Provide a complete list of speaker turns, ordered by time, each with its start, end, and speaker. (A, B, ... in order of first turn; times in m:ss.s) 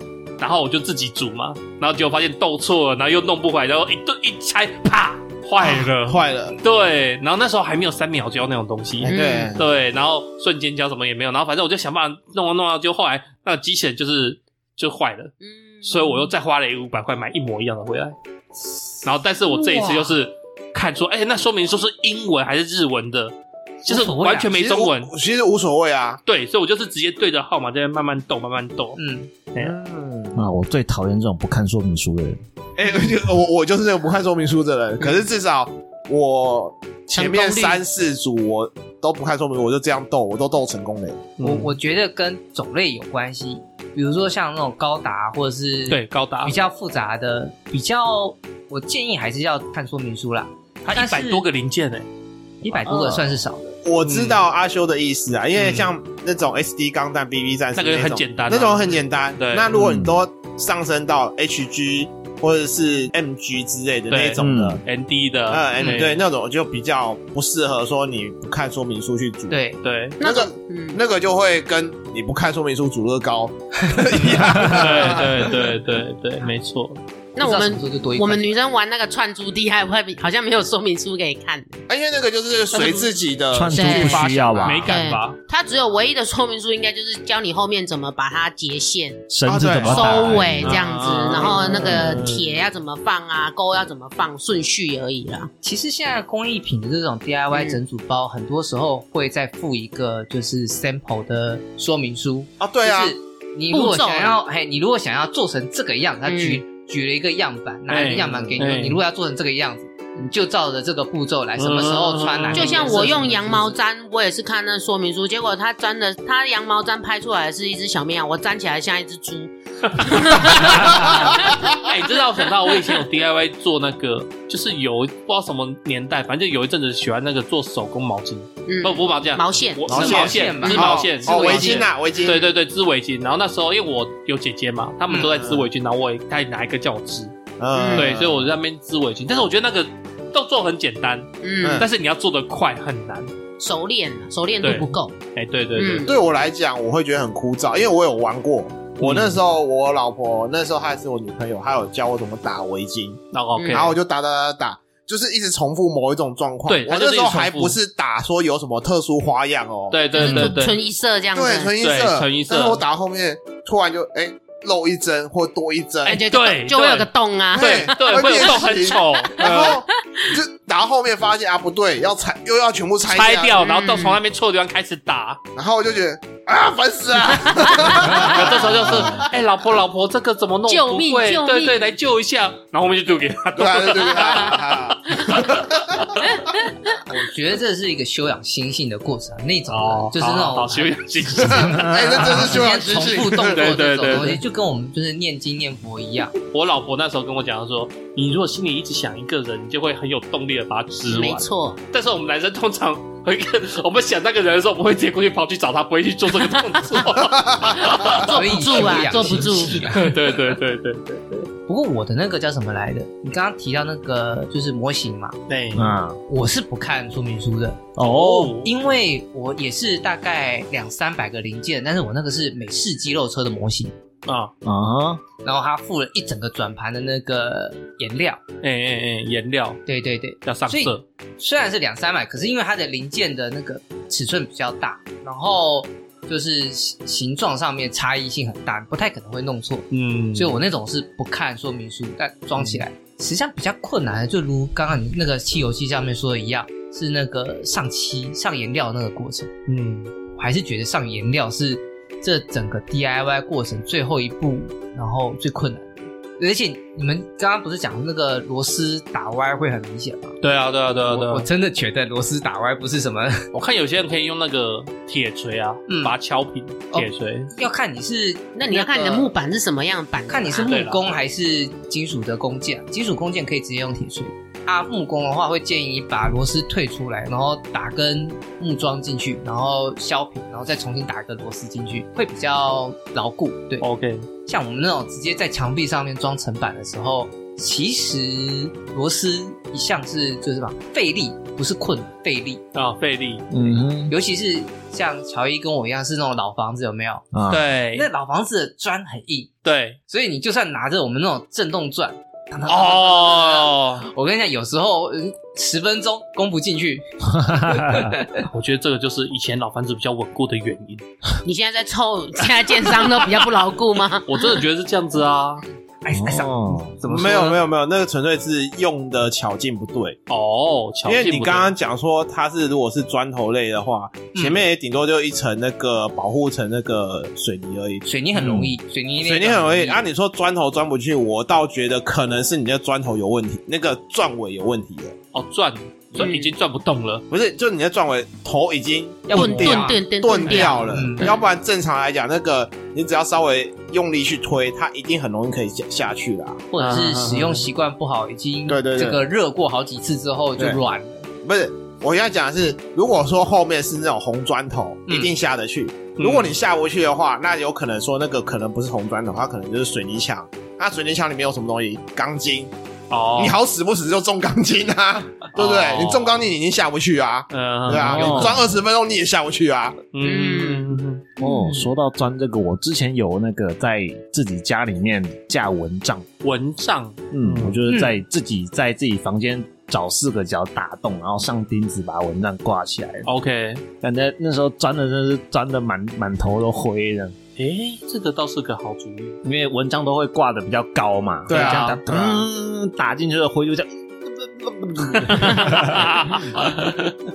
0:00.4-0:18.2 A
0:05.6-0:06.6 B
0:09.0-0:09.6 B
0:09.1-0:09.5 C
0:15.4-0:16.1 C
0:19.0-0:25.1 A
0:23.9-0:24.5 D
0:24.5-0:26.2 B
0:26.2-0:29.0 A
0:29.0-0:29.3 D
0:29.6-0:30.4 B
0:30.3-0:32.4 E
0:32.8-0:41.2 B
0:37.1-0:37.8 C
0:41.4-0:41.7 A
0:41.4-0:51.4 D
0:45.9-0:46.5 A
0:50.8-0:52.1 A
0:52.6-0:53.8 D
0:52.8-0:53.1 B
0:53.8-1:04.8 B
0:54.0-0:54.4 A
0:55.5-0:55.9 A
0:57.7-0:59.7 A
0:59.7-1:00.2 E
1:04.1-1:06.2 A
1:04.4-1:04.8 E
1:05.5-1:09.6 B
1:09.5-1:09.8 D
1:09.8-1:10.2 A
1:10.2-1:11.0 C
1:10.2-1:15.5 B
1:14.6-1:17.0 A
1:17.4-1:21.8 C
1:17.4-1:18.6 D
1:21.9-1:24.9 B
1:23.5-1:24.9 E
1:23.7-1:24.3 C
1:24.6-1:25.4 A
1:24.8-1:29.3 C
1:29.3-1:30.8 E
1:29.4-1:30.8 B
1:29.8-1:35.5 C
1:30.6-1:32.4 A
1:31.3-1:32.3 B
1:35.6-1:53.8 D
1:37.5-1:37.8 C
1:42.6-1:43.2 B
1:43.7-1:44.4 C
1:46.2-1:46.6 C
1:47.9-1:49.0 A
1:51.6-1:53.1 A
1:52.5-2:01.8 C
2:00.4-2:17.3 A
2:08.6-2:09.9 C
2:09.9-2:12.5 B
2:09.9-2:11.8 D
2:15.2-2:15.7 B
2:17.6-2:18.5 B
2:17.7-2:18.2 C
2:17.9-2:23.3 A
2:21.4-2:21.8 C
2:21.6-2:21.9 B
2:23.6-2:25.1 C
2:24.6-2:26.1 A
2:25.8-2:26.1 C
2:26.0-2:40.5 B
2:29.0-2:29.4 A
2:33.3-2:34.0 A
2:33.6-2:33.9 C
2:36.7-2:37.8 A
2:39.9-2:40.8 A
2:40.1-2:41.7 C
2:41.3-2:46.2 B
2:41.8-2:42.8 A
2:46.0-2:49.8 A
2:46.0-2:48.5 C
2:47.5-2:53.6 B
2:49.4-2:50.3 C
2:53.0-2:55.4 A
2:53.6-2:54.2 C
2:55.5-2:59.3 B
2:57.8-3:06.2 A
2:57.9-2:58.2 C
3:00.7-3:01.9 C
3:03.6-3:06.1 B
3:06.2-3:07.0 C
3:07.1-3:16.4 D
3:09.7-3:12.4 A
3:11.4-3:13.6 B
3:13.3-3:14.4 A
3:16.5-3:29.0 A
3:21.0-3:21.8 C
3:27.3-3:27.9 B
3:27.9-3:29.9 C
3:28.2-3:30.2 D
3:29.8-3:31.5 A
3:31.7-3:35.4 D
3:35.5-3:35.9 A
3:35.7-3:36.2 E
3:36.3-3:43.9 D
3:38.0-3:38.5 E
3:38.0-3:38.7 A
3:44.2-3:44.5 A
3:44.6-3:45.2 E
3:45.4-3:48.4 D
3:48.6-3:49.8 A
3:49.8-4:09.5 D
3:50.4-3:51.0 A
3:59.9-4:00.6 A
4:02.6-4:02.8 A
4:09.7-4:10.1 A
4:10.4-4:20.4 D
4:20.4-4:21.5 A
4:21.1-4:23.5 D
4:23.5-4:27.5 A
4:25.9-4:26.1 D
4:26.9-4:29.3 D
4:28.5-4:30.7 C
4:30.3-4:43.8 D
4:30.5-4:31.1 A
4:43.8-4:44.3 A
4:44.4-4:52.6 D
4:52.7-4:53.5 A
4:53.5-4:54.1 E
4:54.1-4:57.2 D
4:57.3-4:57.6 E
4:57.5-4:58.1 A
4:57.9-4:59.5 D
4:59.6-5:00.0 A
5:00.1-5:08.5 D
5:02.6-5:04.0 A
5:07.3-5:08.1 E
5:08.4-5:11.0 A
5:11.4-5:14.4 C
5:14.2-5:15.6 A
5:16.0-5:16.9 D
5:16.1-5:17.0 E
5:17.0-5:17.6 A
5:17.0-5:20.2 B
5:20.3-5:21.7 A
5:21.0-5:28.0 B
5:24.3-5:24.6 D
5:28.0-5:30.0 D
5:28.4-5:28.7 E
5:29.2-5:35.1 B
5:35.3-5:37.2 A
5:37.3-5:46.6 B
5:39.3-5:41.3 D
5:39.3-5:41.4 C
5:46.7-5:51.3 D
5:46.8-5:47.7 A
5:48.7-5:49.2 B
5:51.4-6:02.7 B
5:56.2-5:56.5 A
6:03.1-6:03.6 A
6:03.4-6:10.0 B
6:05.5-6:06.4 A
6:07.5-6:08.6 A
6:08.0-6:08.6 E
6:10.1-6:11.5 A
6:10.2-6:11.0 C
6:11.4-6:16.2 E
6:16.4-6:17.8 A
6:17.3-6:23.3 E
6:17.9-6:18.2 D
6:23.2-6:23.8 A
6:24.0-6:27.4 E
6:27.6-6:29.4 A
6:29.4-6:36.6 E
6:31.5-6:32.5 B
6:31.5-6:32.0 A
6:35.3-6:37.1 A